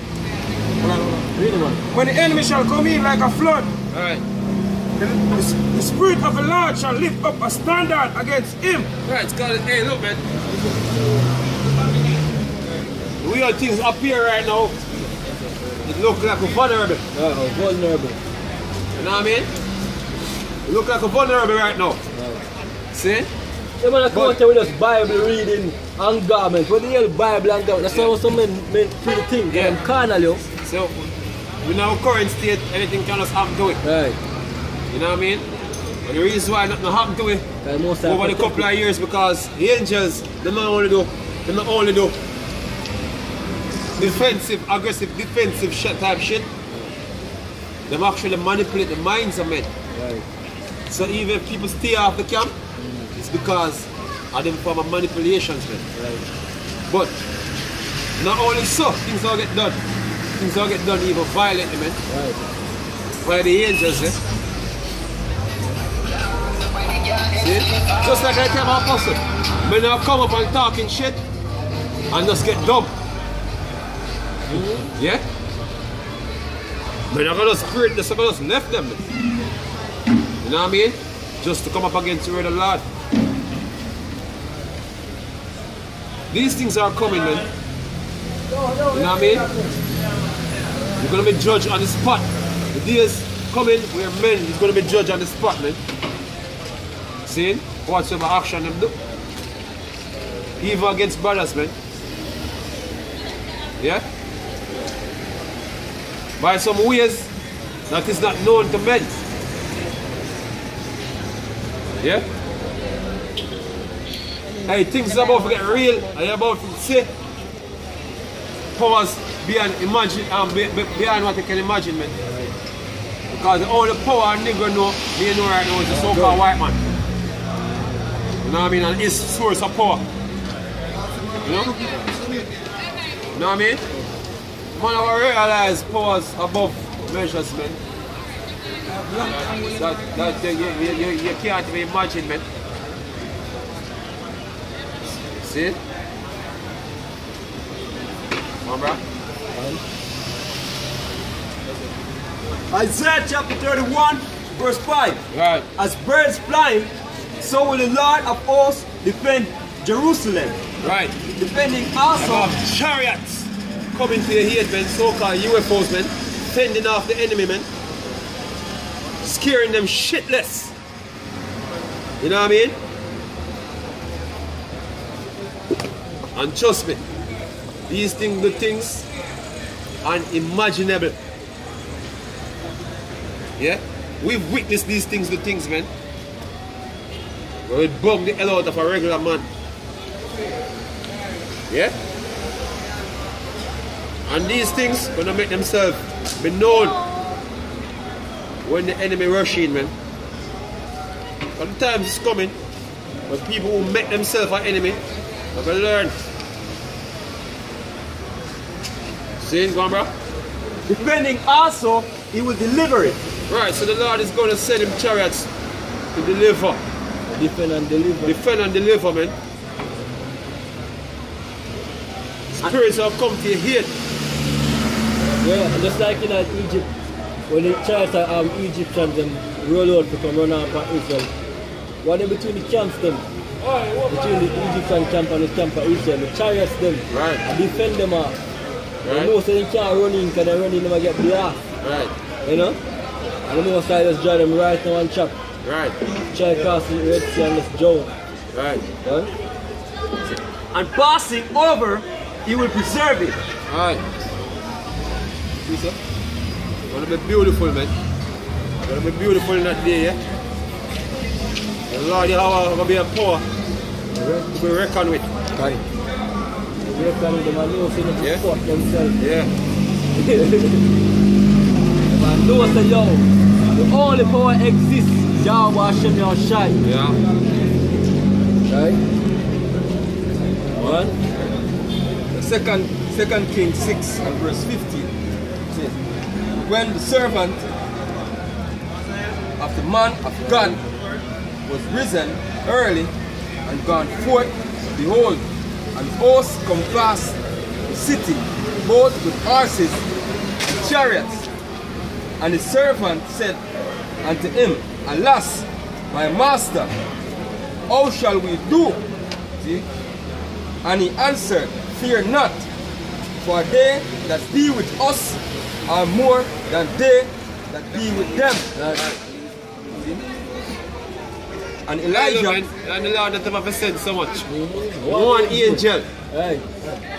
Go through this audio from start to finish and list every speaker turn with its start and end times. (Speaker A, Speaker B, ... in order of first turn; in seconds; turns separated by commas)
Speaker A: 0.8-1.1, Speaker B: 1.3-1.8, Speaker C: 1.9-3.7, Speaker A: 3.9-4.2, Speaker C: 5.0-8.9, Speaker A: 9.1-10.2, Speaker A: 13.2-14.8, Speaker A: 15.8-17.0, Speaker B: 17.1-18.2, Speaker A: 19.0-19.5, Speaker A: 20.6-22.0, Speaker B: 22.1-22.4, Speaker A: 22.9-23.3, Speaker B: 23.8-30.4, Speaker A: 24.1-24.4, Speaker A: 29.5-29.8, Speaker A: 30.6-30.9, Speaker A: 31.6-33.8, Speaker B: 33.8-34.2, Speaker A: 34.9-35.4, Speaker A: 36.0-37.4, Speaker B: 37.6-38.6, Speaker A: 38.0-42.2, Speaker B: 43.9-44.2, Speaker A: 44.0-46.5, Speaker A: 47.9-49.7, Speaker B: 49.9-50.2, Speaker A: 50.9-52.5, Speaker B: 52.8-53.1, Speaker A: 53.1-55.8, Speaker B: 55.9-56.2, Speaker A: 56.9-57.1, Speaker A: 58.2-59.8, Speaker A: 60.4-62.0, Speaker B: 62.1-62.4, Speaker A: 63.2-64.2, Speaker A: 67.3-71.2, Speaker A: 72.1-72.9, Speaker B: 74.5-74.9, Speaker A: 75.0-75.2, Speaker A: 77.1-79.1, Speaker A: 80.4-82.8, Speaker A: 86.3-87.4, Speaker B: 88.5-89.7, Speaker A: 88.9-89.5, Speaker A: 91.0-95.8, Speaker A: 97.2-98.9, Speaker A: 100.6-101.7, Speaker A: 106.4-107.3, Speaker A: 107.9-109.2, Speaker A: 112.0-112.2, Speaker A: 114.6-117.1, Speaker A: 118.8-122.1, Speaker B: 122.2-122.5, Speaker A: 123.3-126.8, Speaker B: 125.9-126.4, Speaker A: 128.4-130.0, Speaker A: 131.4-131.8, Speaker A: 133.3-133.8, Speaker A: 134.8-137.8, Speaker A: 139.1-142.4, Speaker A: 145.4-145.8, Speaker A: 148.6-149.0, Speaker B: 149.5-149.8, Speaker D: 152.7-155.2, Speaker A: 155.3-155.7, Speaker D: 155.8-160.6, Speaker A: 160.8-161.1, Speaker D: 161.3-162.5, Speaker A: 162.2-167.7, Speaker A: 169.2-170.7, Speaker A: 172.2-172.7, Speaker A: 176.3-177.0, Speaker A: 177.9-179.0, Speaker A: 180.0-181.1, Speaker A: 183.6-185.9, Speaker A: 187.7-189.4, Speaker A: 194.3-197.0, Speaker A: 198.6-199.9, Speaker A: 201.6-202.5, Speaker A: 203.3-205.0, Speaker A: 205.5-206.1, Speaker A: 209.4-210.1, Speaker D: 210.9-213.2, Speaker A: 213.5-215.5, Speaker A: 216.1-216.8, Speaker B: 217.3-218.3, Speaker A: 218.2-219.3, Speaker A: 222.5-223.9, Speaker B: 225.4-226.9, Speaker B: 227.5-231.3, Speaker B: 232.0-233.2, Speaker B: 233.9-238.3, Speaker A: 237.1-237.4, Speaker B: 239.0-241.6, Speaker A: 239.0-239.3, Speaker A: 241.8-242.1, Speaker B: 242.4-242.8, Speaker B: 243.4-245.3, Speaker A: 245.6-246.0, Speaker B: 246.3-248.1, Speaker A: 248.5-248.8, Speaker B: 249.0-249.3, Speaker D: 250.7-253.4, Speaker A: 253.7-254.0, Speaker A: 255.7-255.9, Speaker A: 256.9-257.9, Speaker A: 258.8-260.2, Speaker A: 261.9-263.4, Speaker B: 264.1-264.5, Speaker A: 264.5-265.3, Speaker B: 266.9-269.1, Speaker A: 269.2-269.5, Speaker B: 270.1-270.9, Speaker B: 272.1-276.8, Speaker A: 276.8-277.2, Speaker B: 278.7-279.0, Speaker B: 280.7-281.1, Speaker E: 282.3-285.1, Speaker E: 285.7-286.0, Speaker E: 286.6-287.6, Speaker E: 289.6-290.8, Speaker E: 291.6-293.1, Speaker E: 293.6-300.0, Speaker E: 300.6-301.5, Speaker E: 302.4-303.6, Speaker E: 304.2-306.9, Speaker E: 307.9-309.0, Speaker E: 310.8-312.7, Speaker E: 313.4-318.7, Speaker B: 318.8-319.0, Speaker A: 318.9-319.2, Speaker E: 321.9-322.6, Speaker A: 322.1-324.4, Speaker B: 324.5-327.0, Speaker A: 325.1-326.1